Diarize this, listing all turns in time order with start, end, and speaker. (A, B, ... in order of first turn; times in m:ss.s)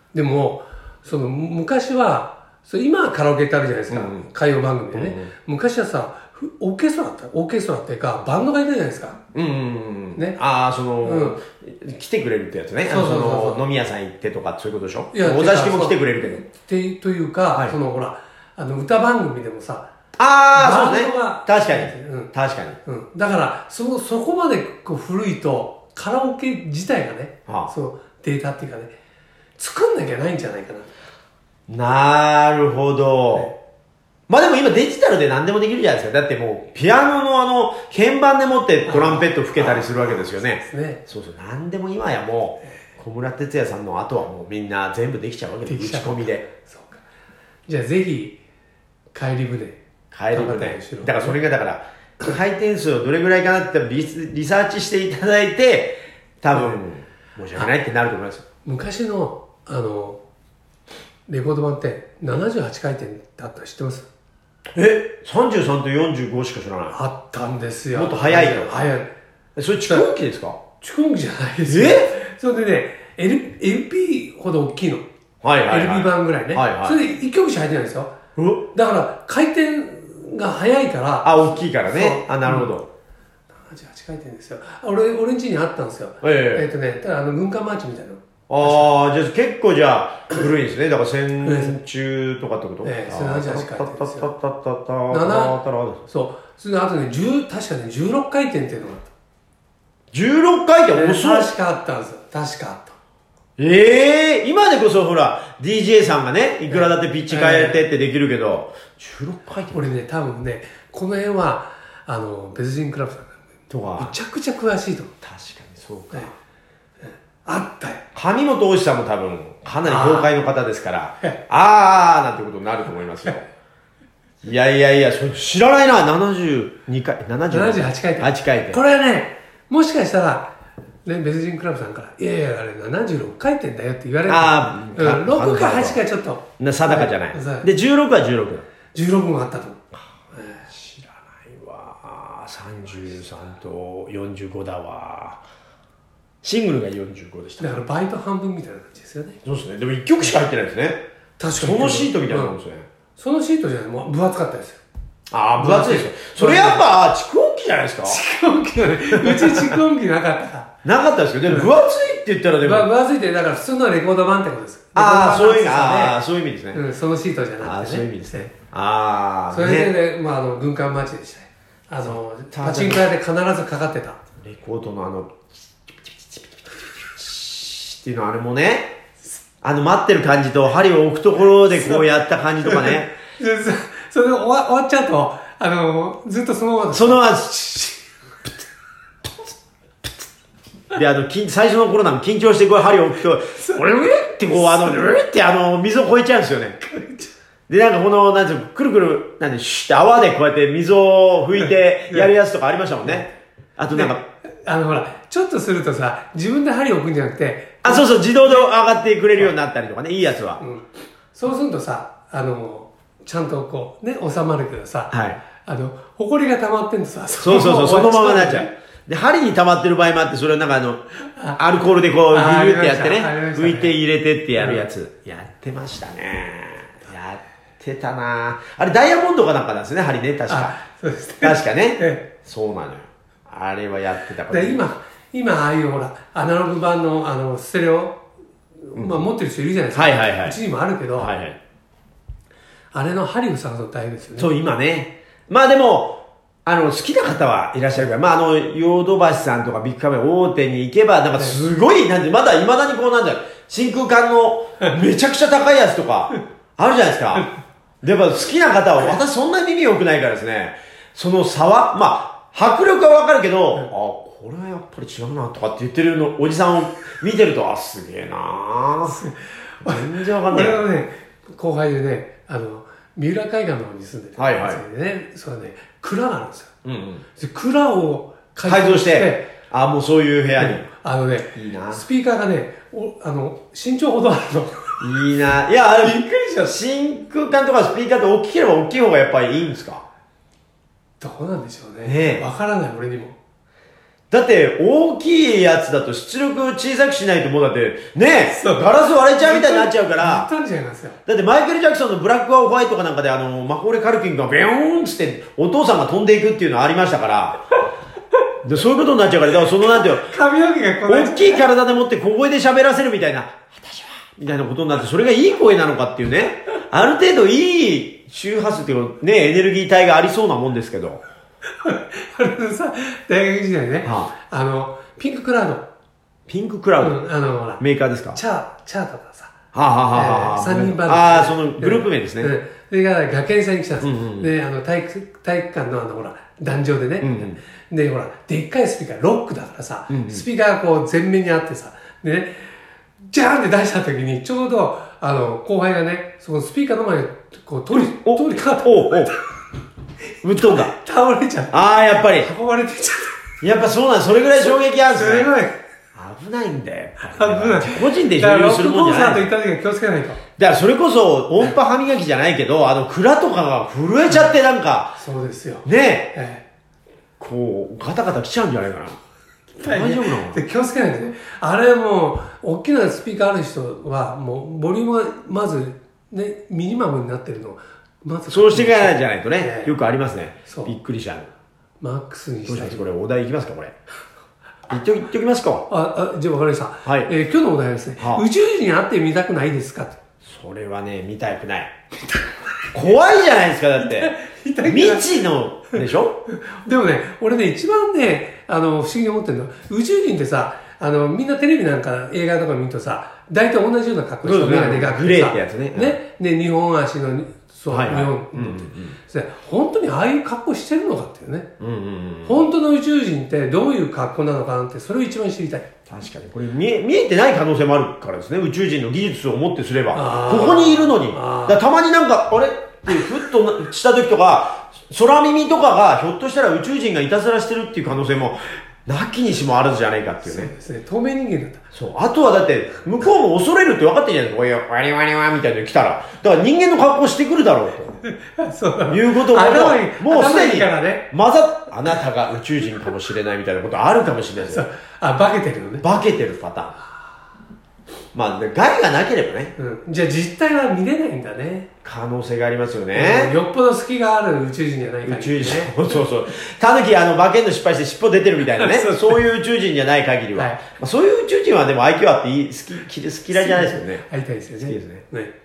0:00.1-0:09.2 A
0:03.9-0:04.3 B
0:04.9-0:05.3 B
0:09.3-0:16.4 B
0:11.0-0:11.4 A
0:12.9-0:13.6 A
0:15.1-0:19.9 A
0:20.2-0:22.8 B
0:20.5-0:22.3 A
0:22.8-0:28.9 A
0:27.5-0:27.7 B
0:29.6-0:30.9 A
0:31.7-0:33.5 B
0:34.3-0:46.4 B
0:38.9-0:41.0 A
0:45.7-0:47.0 A
0:47.7-0:48.4 A
0:49.1-0:49.8 A
0:50.1-0:58.4 B
0:50.3-0:51.4 A
0:58.6-1:00.2 A
1:01.3-1:04.1 A
1:04.8-1:07.0 B
1:06.9-1:09.1 A
1:07.9-1:08.8 B
1:09.6-1:10.6 B
1:10.8-1:15.0 A
1:11.7-1:12.2 B
1:15.4-1:17.0 B
1:15.7-1:18.2 A
1:18.4-1:18.7 B
1:18.7-1:22.7 A
1:21.2-1:22.9 B
1:23.6-1:28.9 A
1:26.2-1:26.7 B
1:28.5-1:36.0 B
1:31.4-1:31.8 A
1:32.8-1:34.3 A
1:35.1-1:35.6 A
1:36.1-1:39.1 A
1:40.1-1:41.5 B
1:40.9-1:43.0 A
1:43.6-1:49.8 B
1:46.7-1:47.9 A
1:49.7-1:53.4 A
1:53.7-1:54.1 B
1:54.0-1:55.1 A
1:55.2-1:56.3 B
1:57.0-1:58.0 A
1:58.1-2:03.5 B
1:59.8-2:00.3 A
2:04.4-2:08.8 B
2:07.5-2:10.5 A
2:11.0-2:17.7 A
2:14.3-2:16.0 B
2:16.6-2:18.7 B
2:18.9-2:19.8 A
2:20.3-2:20.7 A
2:20.7-2:25.4 B
2:26.4-2:27.8 B
2:27.6-2:29.4 A
2:29.4-2:31.0 B
2:31.4-2:32.6 A
2:31.6-2:32.9 B
2:33.2-2:34.8 A
2:35.3-2:38.2 B
2:35.6-2:36.9 A
2:38.0-2:40.7 A
2:39.2-2:39.8 B
2:40.8-2:42.9 B
2:42.6-2:46.2 A
2:45.0-2:46.8 B
2:46.7-2:48.5 A
2:47.6-2:49.9 B
2:49.5-2:54.2 A
2:52.5-2:53.1 B
2:54.4-2:55.4 B
2:57.0-2:59.0 B
2:59.6-3:03.1 B
3:01.8-3:02.0 A
3:02.6-3:07.9 A
3:06.9-3:07.9 B
3:10.9-3:16.8 B
3:14.5-3:15.1 A
3:16.8-3:17.3 A
3:17.7-3:24.2 B
3:21.6-3:22.3 A
3:23.9-3:28.6 A
3:27.8-3:30.6 B
3:30.6-3:35.1 A
3:35.1-3:35.4 B
3:35.6-3:38.7 A
3:37.4-3:41.0 B
3:41.6-3:50.8 B
3:42.3-3:44.0 A
3:44.6-3:44.9 A
3:50.5-3:52.3 A
3:51.4-3:54.8 B
3:54.5-3:58.2 A
3:58.8-4:01.3 A
3:59.0-3:59.3 B
3:59.9-4:00.6 B
4:01.2-4:01.6 B
4:02.9-4:04.5 A
4:04.4-4:17.5 B
4:18.0-4:29.2 B
4:29.0-4:36.7 A
4:29.8-4:30.9 B
4:34.4-4:34.8 B
4:36.8-4:37.2 B
4:37.4-4:39.5 A
4:38.7-4:40.9 B
4:40.6-4:45.1 A
4:41.6-4:42.0 B
4:45.0-4:50.0 B
4:46.0-4:46.8 A
4:51.2-4:53.4 A
4:52.0-4:52.4 B
4:54.3-5:00.5 B
4:58.5-5:01.2 A
5:01.3-5:07.7 B
5:08.6-5:10.3 B
5:10.0-5:11.6 A
5:11.1-5:21.2 B
5:21.8-5:25.9 A
5:24.0-5:24.3 B
5:26.5-5:27.2 B
5:27.0-5:27.8 A
5:27.8-5:28.4 B
5:28.4-5:29.6 A
5:29.7-5:32.5 B
5:30.1-5:42.7 A
5:34.0-5:34.5 B
5:37.2-5:37.6 B
5:40.1-5:40.4 B
5:43.3-5:49.4 A
5:47.9-5:49.3 B
5:50.4-5:50.9 B
5:50.6-5:53.5 A
5:51.7-5:52.5 B
5:53.6-5:55.5 B
5:54.6-5:55.8 A
5:56.1-5:59.5 B
5:57.2-6:00.4 A
6:00.6-6:05.2 B
6:05.2-6:06.6 A
6:05.8-6:06.3 B
6:07.4-6:09.2 B
6:09.8-6:19.9 A
6:09.8-6:10.6 B
6:18.5-6:21.5 B
6:20.7-6:20.9 A
6:22.0-6:23.0 A
6:22.7-6:23.9 B
6:24.9-6:25.9 B
6:25.9-6:30.2 A
6:28.2-6:28.4 B
6:30.4-6:31.9 B
6:32.9-6:36.4 B
6:34.0-6:35.4 A
6:36.0-6:51.7 A
6:44.4-6:46.2 B
6:47.9-6:49.2 B
6:51.8-6:52.6 B
6:52.5-6:55.9 A
6:56.1-7:10.7 B
7:00.1-7:01.8 A
7:10.4-7:11.8 A
7:11.9-7:18.2 B
7:18.4-7:21.3 A
7:19.1-7:24.8 B
7:24.6-7:26.0 A
7:26.0-7:27.0 B
7:28.3-7:29.8 B
7:29.8-7:31.9 A
7:32.0-7:33.5 B
7:33.1-7:36.0 A
7:35.2-7:44.2 B
7:38.8-7:39.4 A
7:40.6-7:40.8 A
7:43.5-7:45.5 A
7:44.8-7:45.2 B